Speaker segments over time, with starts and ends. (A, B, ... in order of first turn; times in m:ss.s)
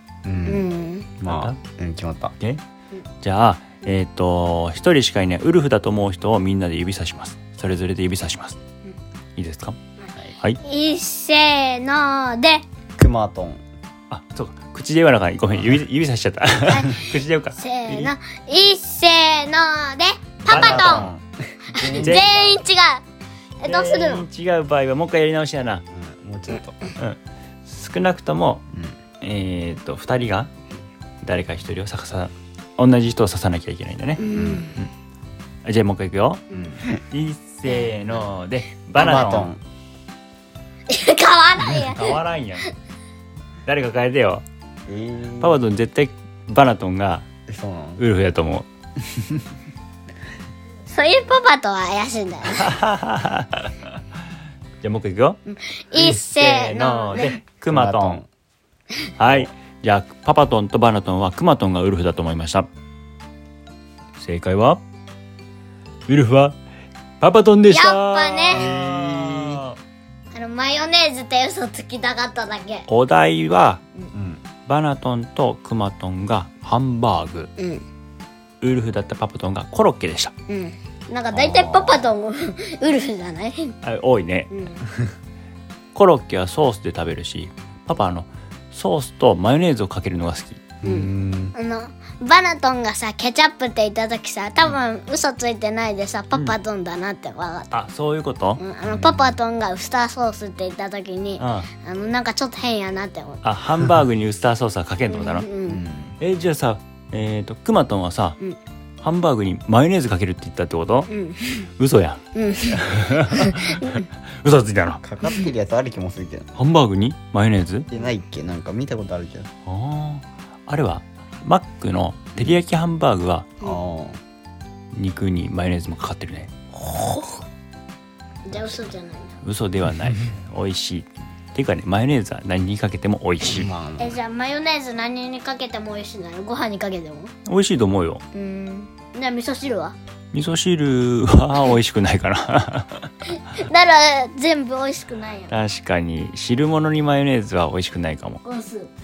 0:00.2-0:00.7 A
0:00.5-0:01.1 B
0:01.2-0:02.3 A
0:01.2-0:01.6 C
0:03.2-0:08.6 C
0:09.4-0:09.8 C
0:10.0-0:12.6 B
0:13.0-0:13.6 A
0:14.1-0:18.1 C
0:16.7-0:21.1 B
0:20.4-0:22.6 A
0:20.5-0:21.1 C
0:21.8-0:23.0 B
0:22.0-0:22.3 C
0:23.6-0:24.2 B
0:23.6-0:25.8 C
0:25.9-0:26.9 A
0:27.0-0:28.6 C
0:28.7-0:29.0 A
0:29.2-0:30.5 C
0:31.2-0:34.2 C
0:34.2-0:34.8 B
0:34.3-0:34.7 A
0:35.6-0:36.4 C
0:36.5-0:36.8 A
0:37.0-0:39.5 C
0:39.0-0:39.6 A
0:40.9-0:42.2 B
0:41.7-0:42.6 C
0:43.7-0:44.4 C
0:44.9-0:45.6 A
0:45.4-0:47.2 C
0:47.5-0:48.0 A
0:48.0-0:48.7 C
0:50.9-0:52.7 B
0:52.5-0:54.0 C
0:54.8-0:55.4 C
0:55.5-0:57.4 B
0:55.9-0:58.2 C
0:57.7-0:58.3 A
0:59.2-1:02.7 C
1:04.2-1:04.8 C
1:06.1-1:06.6 C
1:07.2-1:09.8 C
1:07.7-1:08.6 B
1:08.5-1:09.6 A
1:10.3-1:12.9 B
1:12.9-1:13.8 C
1:14.1-1:14.4 A
1:14.7-1:17.5 C
1:17.6-1:17.8 B
1:18.6-1:20.3 C
1:20.5-1:23.8 B
1:21.3-1:22.1 A
1:23.8-1:24.5 C
1:24.5-1:24.8 B
1:26.0-1:30.6 C
1:30.8-1:31.6 A
1:30.8-1:37.7 B
1:37.7-1:38.6 C
1:38.6-1:43.4 B
1:38.8-1:39.4 A
1:41.4-1:41.7 C
1:43.4-1:45.5 C
1:45.1-1:45.8 B
1:45.7-1:46.2 A
1:46.2-1:48.4 C
1:49.0-1:51.1 C
1:51.1-1:51.7 B
1:51.8-1:55.0 C
1:52.3-1:53.9 B
1:55.0-1:56.5 A
1:56.6-1:57.9 C
1:57.9-1:59.5 A
1:59.7-2:03.5 C
2:02.4-2:02.6 A
2:03.6-2:04.2 A
2:04.9-2:06.5 C
2:06.8-2:07.4 B
2:08.4-2:09.4 B
2:09.4-2:13.7 C
2:13.4-2:14.2 A
2:14.0-2:17.3 B
2:17.4-2:18.2 C
2:18.3-2:20.0 B
2:20.3-2:23.1 C
2:23.4-2:25.6 B
2:25.5-2:28.4 C
2:28.4-2:28.9 B